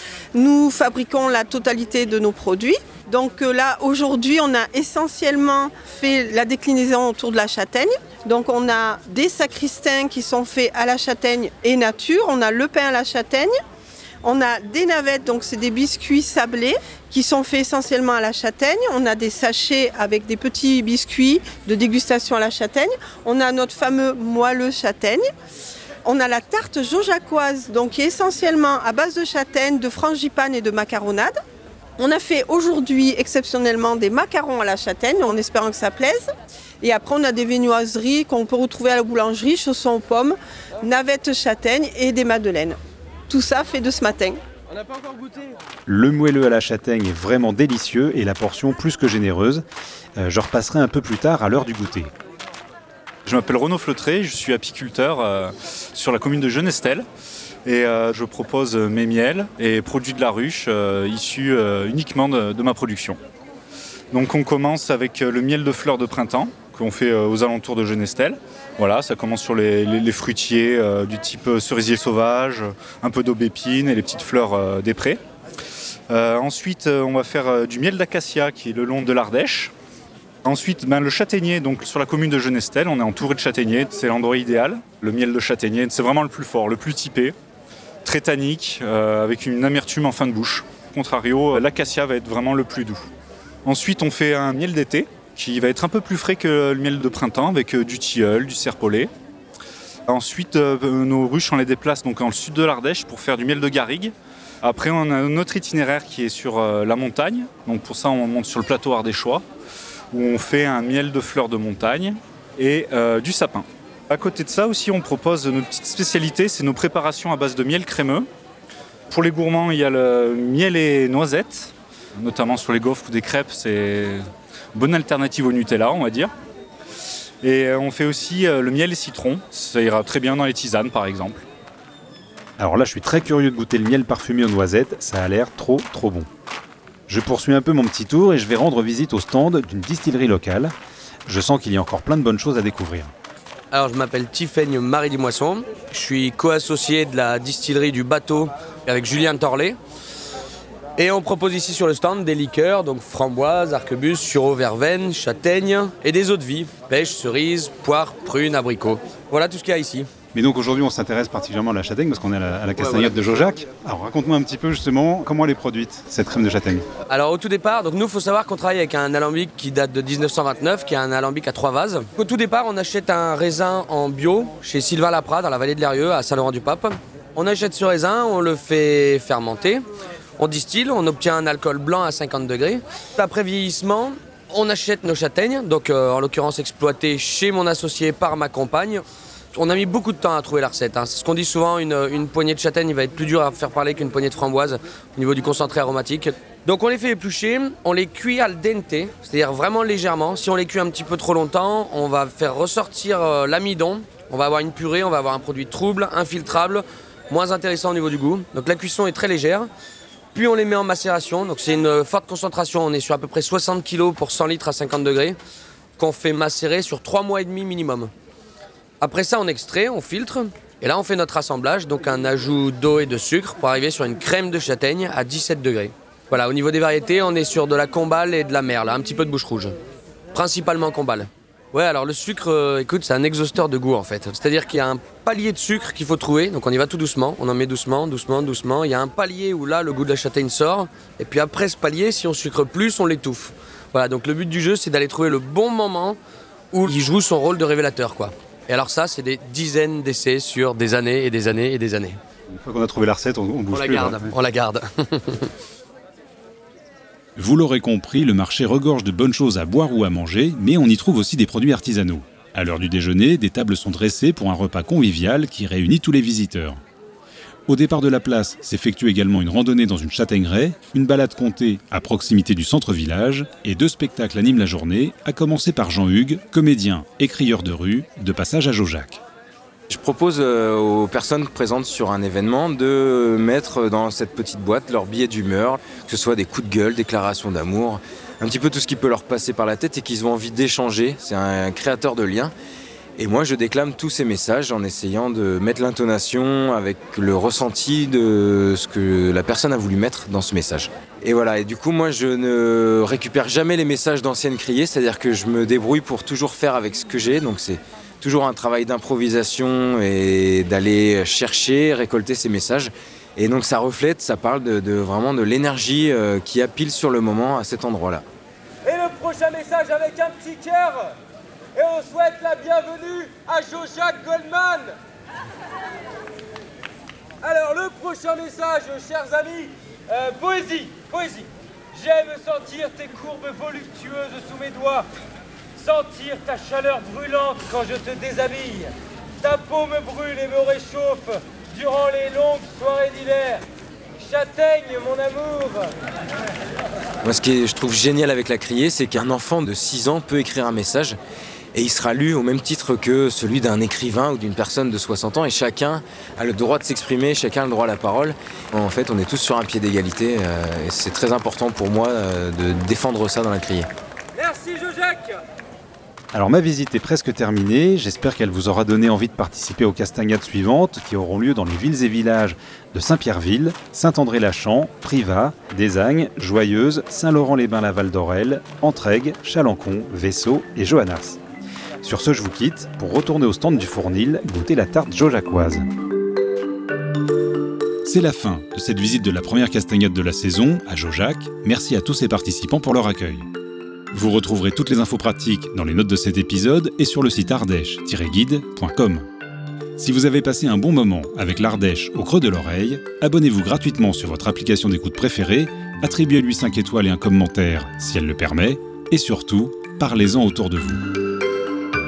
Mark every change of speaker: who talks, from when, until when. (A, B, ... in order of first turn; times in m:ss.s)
0:00.3-0:13.6 A
0:14.2-0:25.3 A
0:26.0-0:31.4 A
0:32.0-0:36.3 A
0:36.8-0:42.8 A
0:43.3-0:44.4 A
0:45.9-0:49.6 B
0:50.2-0:52.1 B
0:53.3-0:57.0 C
0:57.7-1:03.2 C
1:04.1-1:15.2 C
1:16.1-1:19.7 C
1:20.4-1:27.3 C
1:28.0-1:33.0 C
1:33.7-1:39.1 C
1:40.1-1:49.4 C
1:50.1-1:58.2 C
1:59.1-2:04.2 C
2:04.8-2:06.3 C
2:07.4-2:11.4 C
2:12.6-2:16.3 B
2:17.1-2:20.7 B
2:21.3-2:23.1 B
2:23.7-2:29.8 D
2:31.0-2:40.1 D
2:40.3-2:46.9 B
2:42.8-2:43.2 D
2:47.1-2:59.8 D
3:00.4-3:29.7 D
3:30.3-3:35.4 D
3:36.0-3:38.1 D
3:39.0-3:49.8 D
3:50.3-4:06.2 D
4:06.7-4:12.2 D
4:12.5-4:14.4 B
4:13.7-4:15.5 D
4:17.4-4:26.8 B
4:27.7-4:39.2 B
4:39.9-4:52.5 E
4:53.2-5:18.2 E
5:18.8-5:21.1 F
5:21.8-5:25.0 F
5:27.4-5:35.1 F
5:35.8-5:43.6 F
5:44.2-5:45.9 F
5:47.2-5:51.2 E
5:51.7-6:03.9 E
6:04.4-6:05.4 F
6:06.3-6:21.4 B
6:22.0-6:25.9 B
6:28.0-6:33.5 B
6:34.1-6:39.3 B
6:40.0-6:51.0 B